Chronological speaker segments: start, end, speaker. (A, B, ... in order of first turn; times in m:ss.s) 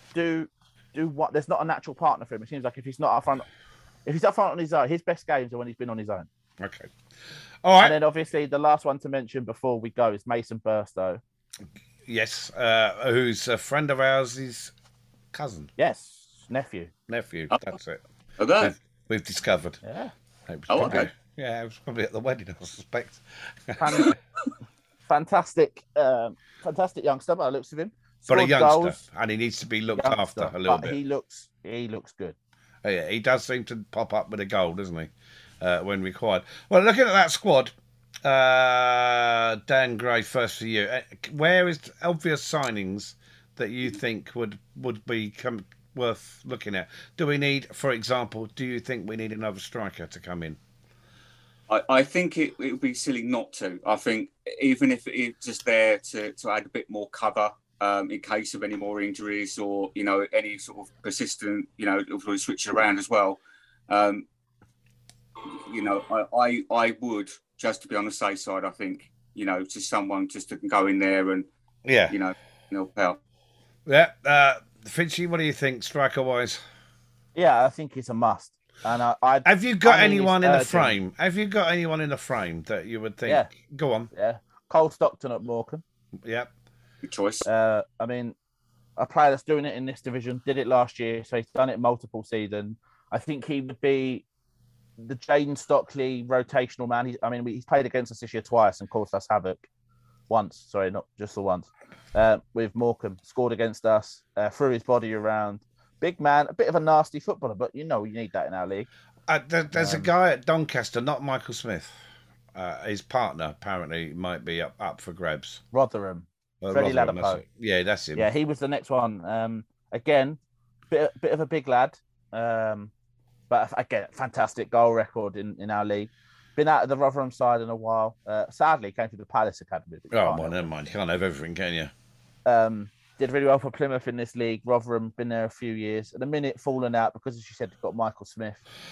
0:00.1-0:03.5 A
0:04.0-0:06.3 A
0:06.6-0:06.9 B
0:07.6-0:08.0 B
0:07.8-0:11.2 A
0:12.0-0:14.7 B
0:15.3-0:15.7 B
0:15.8-0:16.9 A
0:17.1-0:18.0 B
0:18.4-0:18.7 C
0:18.6-0:19.8 B
0:19.8-0:20.1 A
0:20.5-0:24.1 B
0:20.7-0:21.1 C
0:20.8-0:21.0 A
0:23.8-0:24.2 A
0:25.1-0:29.0 A
0:28.3-0:31.0 B
0:29.9-0:32.4 A
0:32.8-0:37.7 B
0:38.2-0:50.6 B
0:51.7-1:04.2 C
1:05.5-1:11.5 C
1:11.8-1:12.2 B
1:12.1-1:13.2 C
1:13.8-1:16.6 B
1:17.3-1:21.0 A
1:19.4-1:24.1 B
1:23.2-1:23.5 A
1:24.1-1:25.8 A
1:26.2-1:26.5 B
1:27.0-1:27.5 C
1:27.4-1:28.3 A
1:29.0-1:34.2 A
1:35.0-1:39.6 A
1:40.3-1:48.9 A
1:49.3-1:52.0 B
1:49.7-1:50.1 A
1:52.5-1:55.6 B
1:55.7-1:57.4 A
1:56.6-1:58.3 B
1:58.1-2:00.4 A
2:00.9-2:02.9 A
2:03.5-2:10.7 A
2:10.1-2:11.9 B
2:12.4-2:18.6 A